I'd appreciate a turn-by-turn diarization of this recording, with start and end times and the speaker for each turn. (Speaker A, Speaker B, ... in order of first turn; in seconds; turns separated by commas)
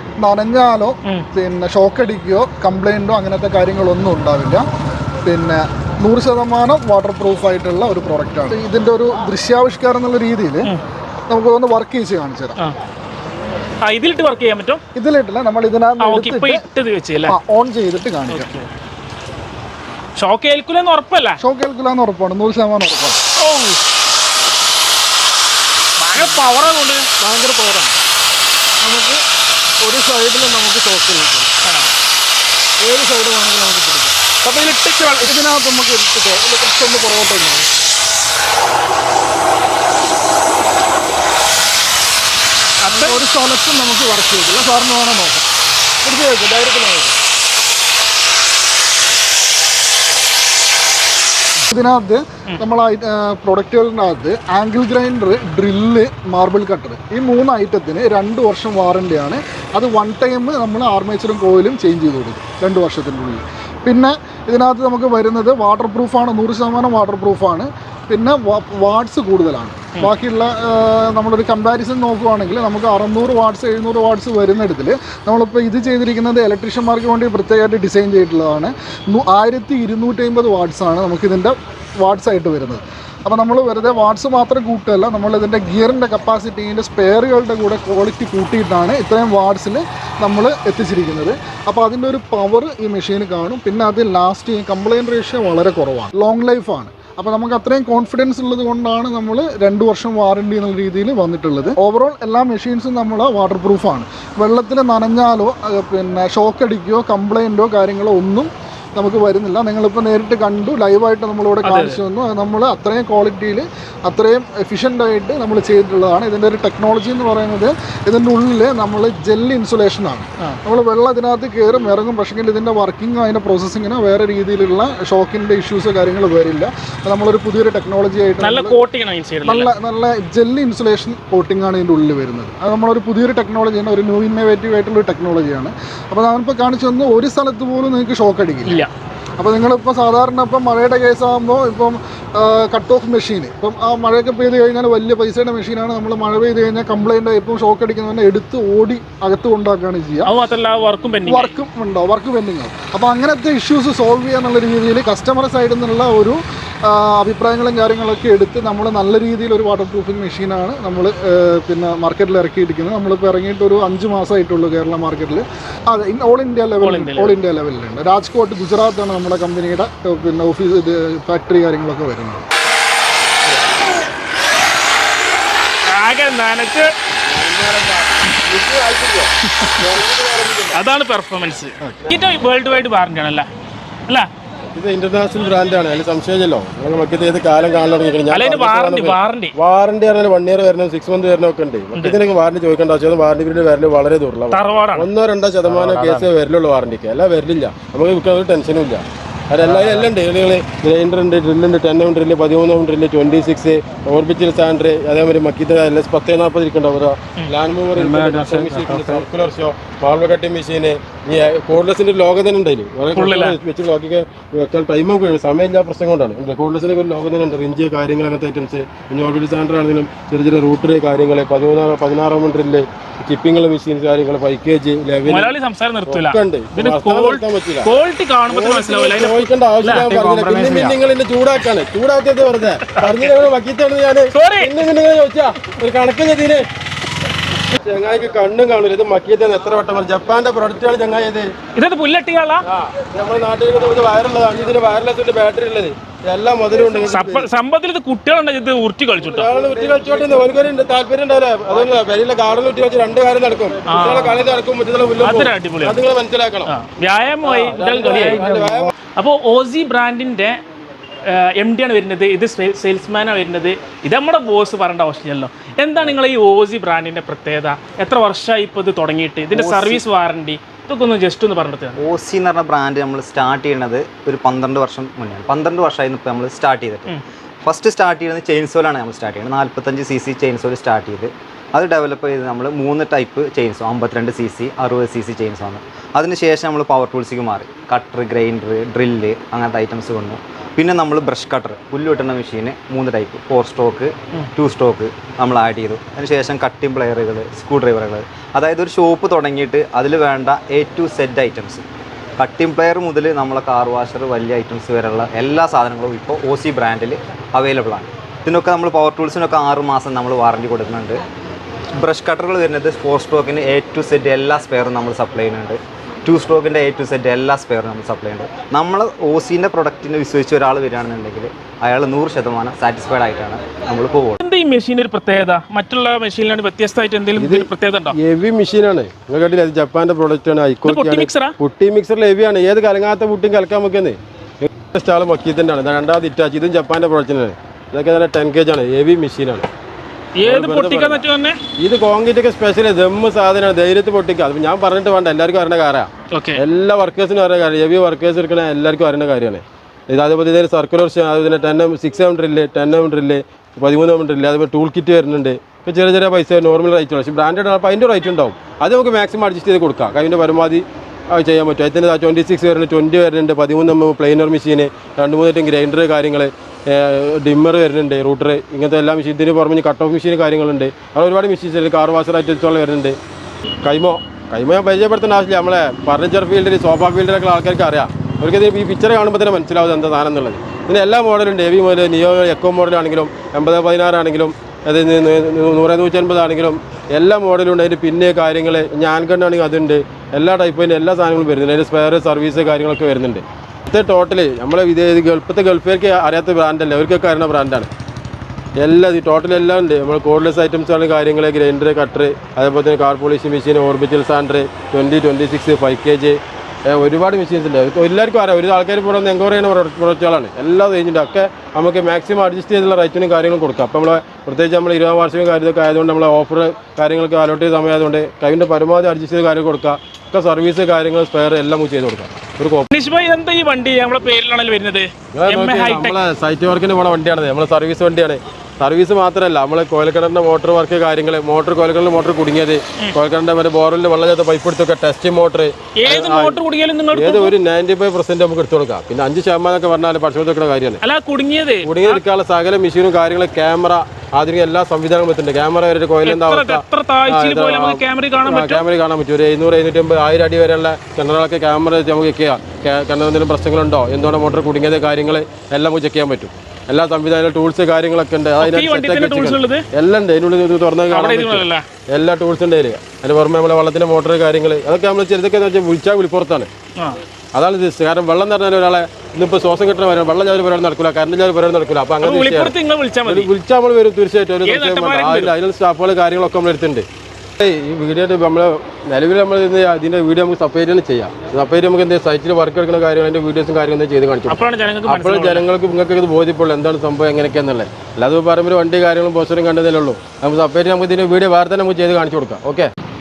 Speaker A: 0.2-4.7, Speaker A: 5.2-10.7, Speaker A: 11.3-12.6, Speaker B: 13.8-14.8, Speaker A: 14.9-16.6, Speaker B: 16.0-17.3, Speaker A: 17.3-18.5, Speaker B: 18.3-18.6, Speaker B: 20.2-21.4, Speaker A: 21.4-23.2, Speaker B: 23.4-23.8, Speaker B: 26.0-27.0, Speaker A: 27.2-28.0, Speaker A: 28.8-29.2, Speaker A: 29.8-31.5, Speaker B: 31.6-31.9, Speaker A: 32.8-34.2, Speaker B: 34.4-35.3, Speaker A: 35.2-37.7, Speaker B: 42.8-43.2, Speaker A: 42.9-45.4, Speaker A: 46.0-47.2, Speaker A: 51.7-128.8, Speaker B: 111.6-112.0, Speaker B: 128.4-129.7, Speaker A: 129.4-138.8, Speaker A: 139.4-150.3, Speaker B: 150.2-151.5, Speaker A: 151.3-172.4, Speaker B: 166.8-167.3, Speaker B: 175.8-176.9, Speaker C: 177.2-180.8, Speaker B: 180.7-183.5, Speaker C: 184.7-225.5, Speaker B: 188.3-189.5, Speaker B: 194.5-195.1, Speaker B: 195.8-196.2, Speaker B: 207.4-209.2, Speaker B: 213.1-213.6, Speaker B: 225.3-230.9, Speaker C: 226.1-227.9, Speaker C: 228.5-236.7, Speaker B: 232.9-233.3, Speaker B: 234.3-234.7, Speaker C: 237.7-241.5, Speaker B: 241.8-242.6, Speaker C: 242.7-247.5, Speaker B: 247.0-249.5, Speaker C: 249.2-256.7, Speaker B: 253.9-254.4, Speaker B: 255.2-256.0, Speaker B: 256.7-260.6, Speaker C: 257.4-258.9, Speaker B: 261.2-272.0, Speaker D: 269.5-270.0, Speaker D: 272.0-277.1, Speaker D: 277.6-301.8, Speaker D: 302.4-311.2, Speaker D: 312.0-324.4, Speaker B: 324.4-328.1, Speaker C: 327.4-339.7, Speaker B: 330.9-331.5, Speaker B: 340.4-341.6, Speaker C: 340.4-341.2, Speaker C: 341.8-373.2, Speaker B: 346.3-346.6, Speaker C: 373.8-397.9, Speaker C: 398.8-422.9, Speaker B: 422.9-426.1, Speaker C: 425.3-436.6, Speaker B: 435.9-437.5, Speaker C: 437.1-441.0, Speaker B: 441.0-442.2, Speaker C: 441.8-466.7, Speaker B: 446.2-448.8, Speaker B: 458.6-459.9, Speaker B: 461.1-461.8, Speaker C: 467.5-472.7, Speaker B: 472.2-473.5, Speaker C: 473.2-477.1, Speaker B: 474.6-475.5, Speaker C: 477.6-492.9, Speaker B: 484.5-485.6